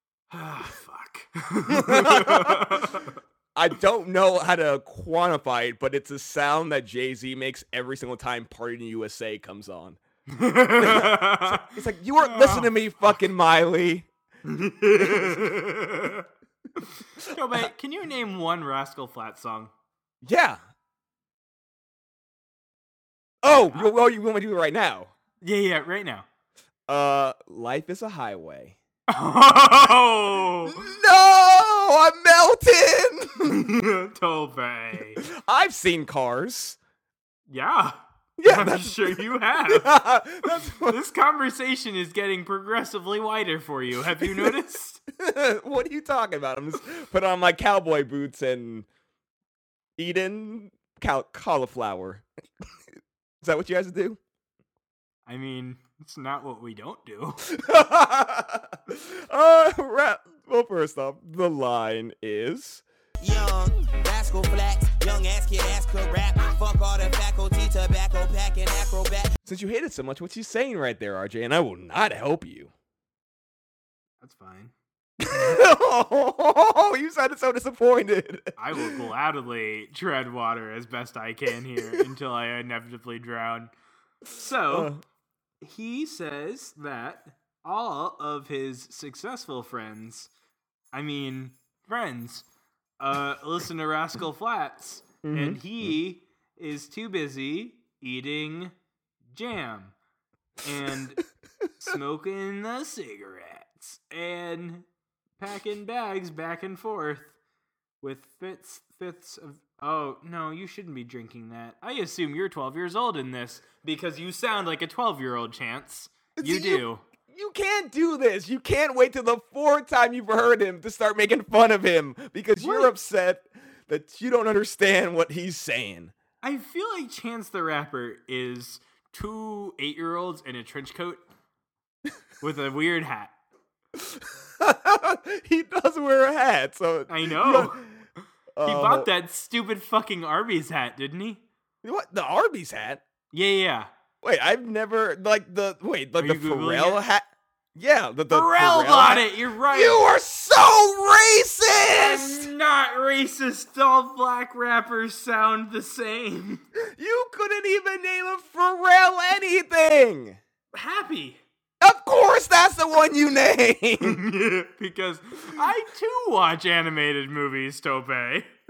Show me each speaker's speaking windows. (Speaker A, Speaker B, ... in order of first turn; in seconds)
Speaker A: 0.3-3.2, 10.3-12.7, 14.4-16.2, 16.8-19.7, 23.4-23.9, 25.4-26.2, 29.1-30.9, 33.4-35.2, 37.5-45.0, 55.3-57.5, 74.2-74.7, 78.6-83.7, 84.3-84.9, 85.6-90.3, 90.9-92.5, 93.0-98.7, 99.3-99.9, 100.6-101.2, 101.8-104.8, 105.4-107.3, 108.0-117.0, 122.6-122.9, 126.4-131.2, 132.4-133.3, 137.1-137.9, 138.6-141.4, 143.3-143.9, 146.2-147.0, 148.3-150.0, 151.9-156.6, 160.7-161.4, 164.0-168.5
Speaker B: 1.7-3.0, 3.5-10.0, 10.7-14.1, 15.0-15.6, 17.2-17.6, 20.2-20.6, 23.4-25.1, 26.9-28.8, 30.6-33.6, 35.2-36.8, 38.4-41.0, 44.2-44.5, 45.2-48.9, 50.0-52.2, 53.4-54.2, 57.5-62.8, 69.5-72.7, 75.2-78.9, 84.7-85.0, 95.2-95.9, 116.4-126.1, 133.9-137.8, 138.6-139.1, 141.8-143.0, 144.2-152.5, 156.9-160.4, 161.8-164.2
Speaker C: 63.2-69.3